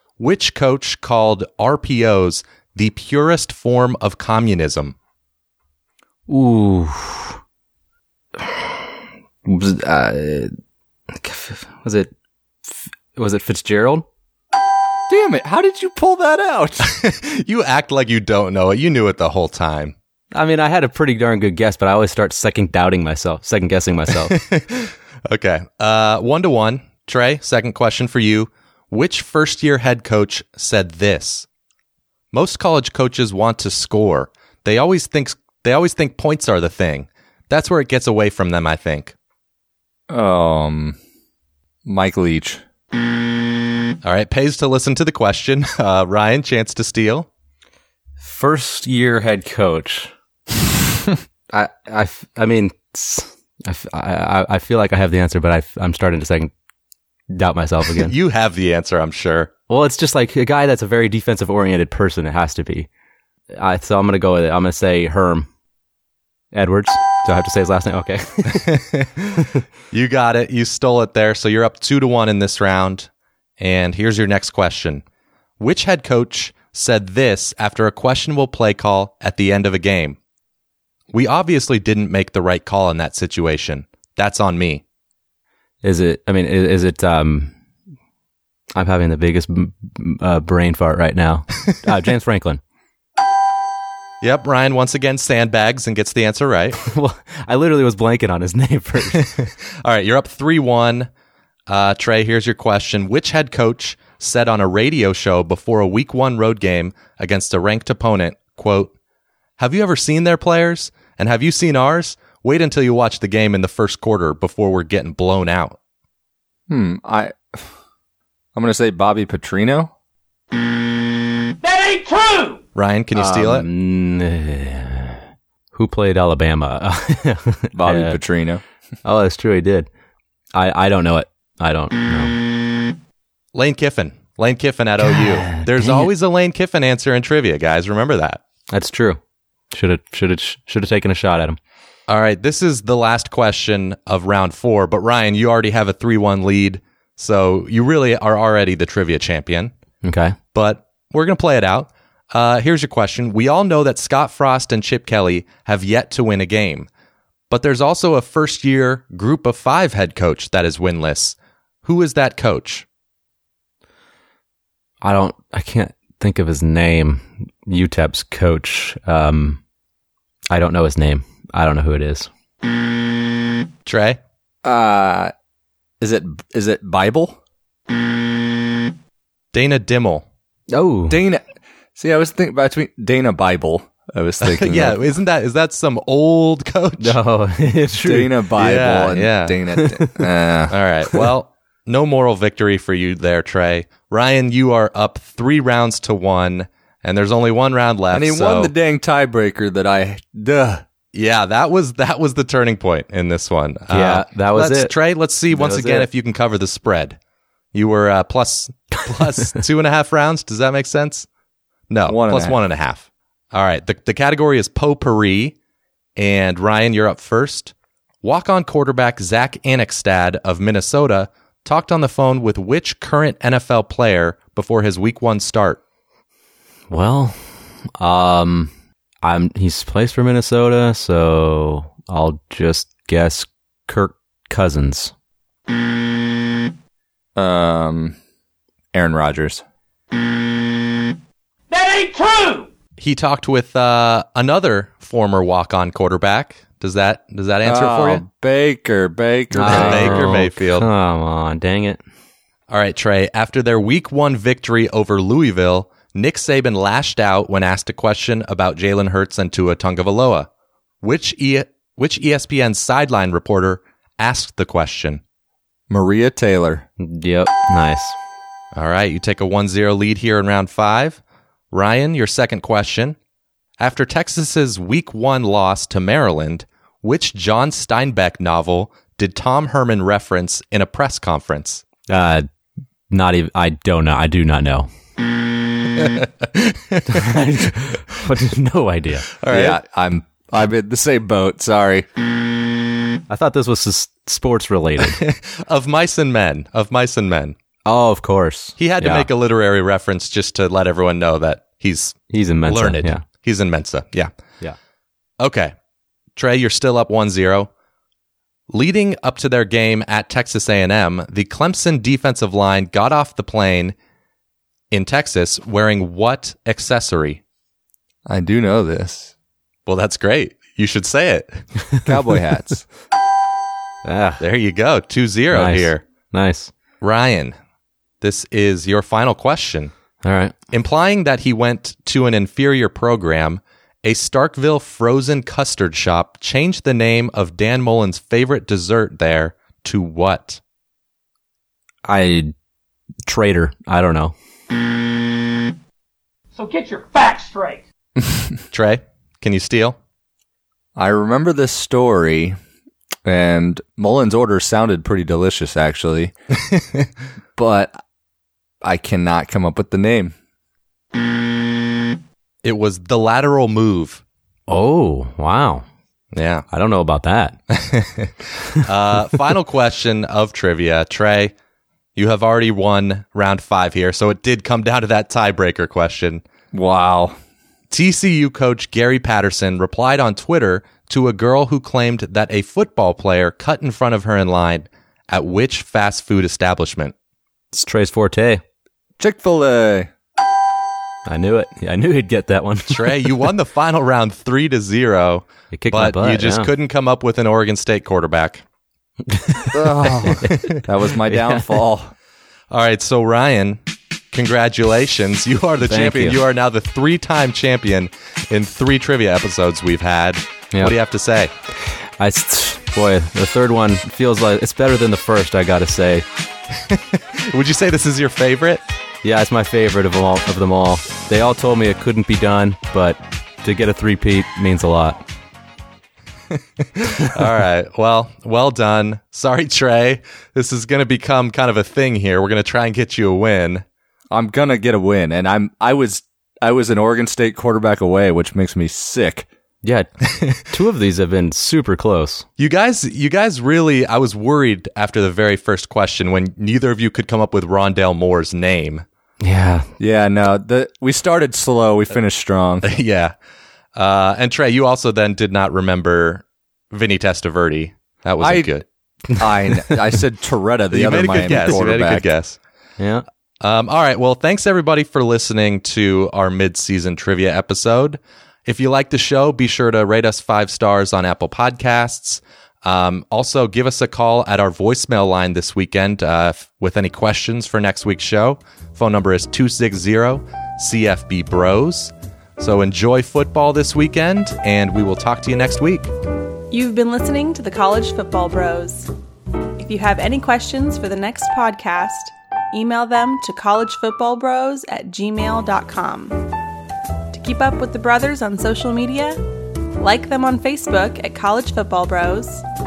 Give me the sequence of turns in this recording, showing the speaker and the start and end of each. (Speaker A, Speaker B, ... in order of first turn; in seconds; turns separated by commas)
Speaker A: 0.2-4.9, Speaker B: 6.3-7.4, Speaker B: 8.4-8.8, Speaker B: 9.4-10.5, Speaker B: 11.1-12.1, Speaker B: 12.7-14.1, Speaker C: 15.1-16.9, Speaker A: 16.8-19.9, Speaker B: 20.3-24.4, Speaker A: 24.3-31.5, Speaker A: 32.3-39.1, Speaker C: 40.1-41.0, Speaker C: 41.8-42.6, Speaker A: 44.0-47.3, Speaker B: 48.2-50.1, Speaker B: 51.5-56.5, Speaker B: 57.3-58.1, Speaker A: 58.0-59.5, Speaker B: 59.7-62.9, Speaker B: 63.5-65.5, Speaker B: 66.5-68.8, Speaker A: 68.5-75.0, Speaker A: 75.6-80.2, Speaker A: 81.1-84.8, Speaker B: 85.8-87.5, Speaker B: 88.7-92.6, Speaker A: 94.2-96.8, Speaker B: 96.8-99.3, Speaker A: 99.1-101.1, Speaker A: 101.7-108.9, Speaker A: 109.6-115.8, Speaker C: 116.7-117.7, Speaker C: 118.5-119.9, Speaker D: 121.6-122.6, Speaker A: 122.7-123.7, Speaker B: 123.1-125.2, Speaker B: 125.7-128.2, Speaker C: 127.7-128.6, Speaker B: 129.0-129.9, Speaker B: 130.5-132.3, Speaker A: 133.5-138.4, Speaker B: 135.0-136.1, Speaker B: 138.7-139.2, Speaker B: 139.7-141.6, Speaker A: 142.1-149.7, Speaker B: 150.0-150.3, Speaker A: 150.5-156.9, Speaker A: 157.5-162.8, Speaker B: 165.0-169.6, Speaker B: 170.5-172.3, Speaker A: 173.8-174.2, Speaker C: 174.6-175.3, Speaker C: 176.0-177.4, Speaker A: 179.5-180.2, Speaker B: 180.7-181.2, Speaker C: 181.1-181.4, Speaker C: 181.9-185.0, Speaker A: 184.4-187.2, Speaker B: 187.0-188.3, Speaker C: 188.0-190.7, Speaker A: 188.6-189.6, Speaker B: 189.8-190.2, Speaker A: 190.7-198.7, Speaker C: 198.1-200.8, Speaker A: 201.1-207.2, Speaker B: 203.9-204.9, Speaker B: 205.5-206.1, Speaker A: 207.7-211.3, Speaker A: 211.9-215.5, Speaker C: 212.1-212.6, Speaker A: 216.2-225.8, Speaker B: 226.9-227.4, Speaker B: 228.0-228.7, Speaker B: 229.2-235.1, Speaker C: 237.3-238.2, Speaker C: 238.9-239.6, Speaker D: 241.7-242.7, Speaker A: 243.0-248.2, Speaker C: 247.6-250.3, Speaker B: 249.5-252.0, Speaker A: 249.6-250.9, Speaker A: 252.7-260.5, Speaker A: 261.0-265.2, Speaker C: 265.9-266.9, Speaker B: 267.0-268.1, Speaker A: 268.7-271.2, Speaker A: 271.7-273.2, Speaker A: 273.8-281.8, Speaker B: 282.1-282.5, Speaker B: 283.1-284.9, Speaker A: 286.0-287.2, Speaker B: 287.1-289.3, Speaker A: 289.4-289.8, Speaker C: 289.5-292.1, Speaker B: 293.3-295.2, Speaker A: 295.1-297.5, Speaker B: 297.9-299.3, Speaker A: 298.8-304.3, Speaker B: 302.3-303.2, Speaker A: 305.4-305.7, Speaker A: 306.4-307.7, Speaker A: 308.7-313.9, Speaker A: 314.9-317.4, Speaker C: 318.2-319.3, Speaker A: 319.9-321.6, Speaker C: 322.1-322.9, Speaker B: 324.0-324.4, Speaker A: 324.4-326.0, Speaker B: 325.5-326.7, Speaker A: 327.0-327.5, Speaker A: 328.2-329.9, Speaker B: 330.2-330.5, Speaker A: 330.7-340.6, Speaker B: 342.0-342.5, Speaker B: 343.2-344.3, Speaker D: 346.5-347.8, Speaker A: 348.7-350.0, Speaker C: 350.9-352.6, Speaker C: 353.2-356.3, Speaker C: 357.6-357.9, Speaker C: 358.8-360.3, Speaker A: 362.6-364.2, Speaker B: 364.7-365.8, Speaker A: 366.3-366.6, Speaker B: 366.7-367.6, Speaker A: 367.7-371.5, Speaker A: 372.1-376.4, Speaker C: 376.7-377.4, Speaker A: 377.9-387.1, Speaker B: 387.7-388.6, Speaker C: 389.2-390.1, Speaker B: 391.2-393.3, Speaker A: 392.9-398.6, Speaker B: 395.7-396.7, Speaker B: 399.3-401.7, Speaker C: 399.7-402.1, Speaker A: 402.7-403.8, Speaker A: 404.3-411.5, Speaker B: 405.8-406.4, Speaker B: 411.9-416.2, Speaker A: 416.9-418.8, Speaker B: 419.2-425.2, Speaker A: 426.9-433.8, Speaker C: 434.3-439.5, Speaker B: 439.8-442.4, Speaker A: 442.6-449.0, Speaker B: 449.4-449.9, Speaker C: 450.0-452.9, Speaker A: 452.8-453.3, Speaker A: 453.9-458.8, Speaker C: 458.4-458.8, Speaker C: 459.4-462.3, Speaker A: 460.9-462.6, Speaker B: 463.0-463.2, Speaker A: 463.6-486.1, Speaker E: 486.7-489.1, Speaker E: 489.8-496.4, Speaker E: 497.3-499.4, Speaker E: 500.0-502.6